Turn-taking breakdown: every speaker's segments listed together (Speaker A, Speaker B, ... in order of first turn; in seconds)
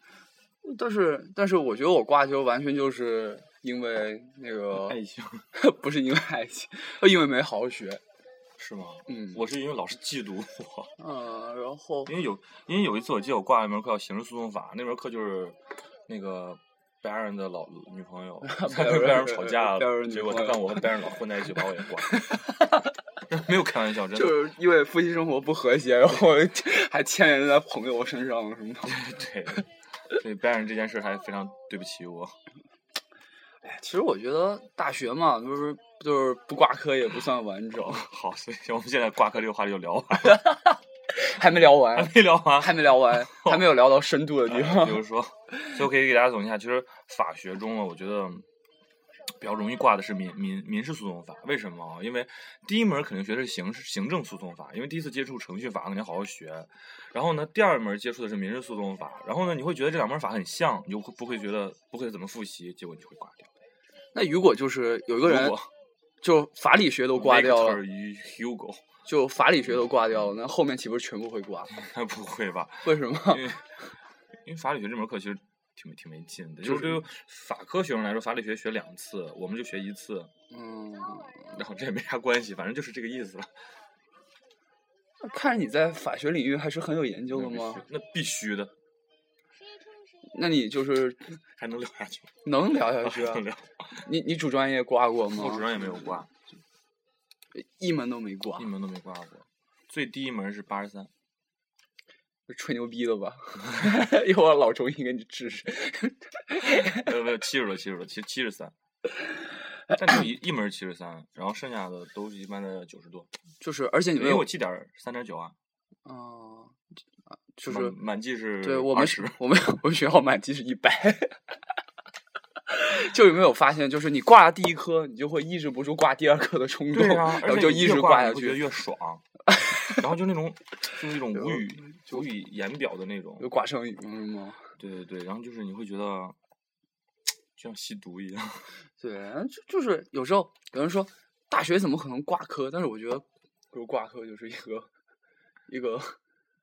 Speaker A: 0.6-5.0, 5.5-8.0, 9.1-9.4, 11.0-12.1, 18.4-20.9, 22.1-22.4, 24.1-29.0, 33.6-38.1, 40.3-45.0, 64.1-65.6, 66.2-67.8, 69.0-71.7, 72.8-73.5, 76.6-77.0, 80.5-81.5, 85.2-87.8, 90.3-91.4, 92.4-93.5, 94.0-95.8, 97.5-98.7, 102.5-107.1, 113.6-114.5, 116.0-116.8, 117.5-118.0, 118.6-121.4, 122.7-128.7, 131.4-132.2, 133.4-134.7, 139.0-144.9, 145.7-146.2
Speaker B: 4.8-5.4, 8.6-10.9, 12.1-22.2, 23.3-24.4, 28.9-32.4, 37.9-40.4, 41.9-43.8, 44.5-48.4, 49.4-63.5, 65.2-65.7, 67.1-68.8, 70.1-70.3, 71.7-73.6, 74.4-80.3, 81.5-83.5, 87.3-88.7, 91.6-92.3, 93.0-93.7, 95.3-96.3, 98.6-101.1, 106.8-108.7, 109.9-113.3, 114.2-115.5, 117.6-119.4, 126.9-129.2, 129.9-133.5, 134.8-136.3, 137.6-138.7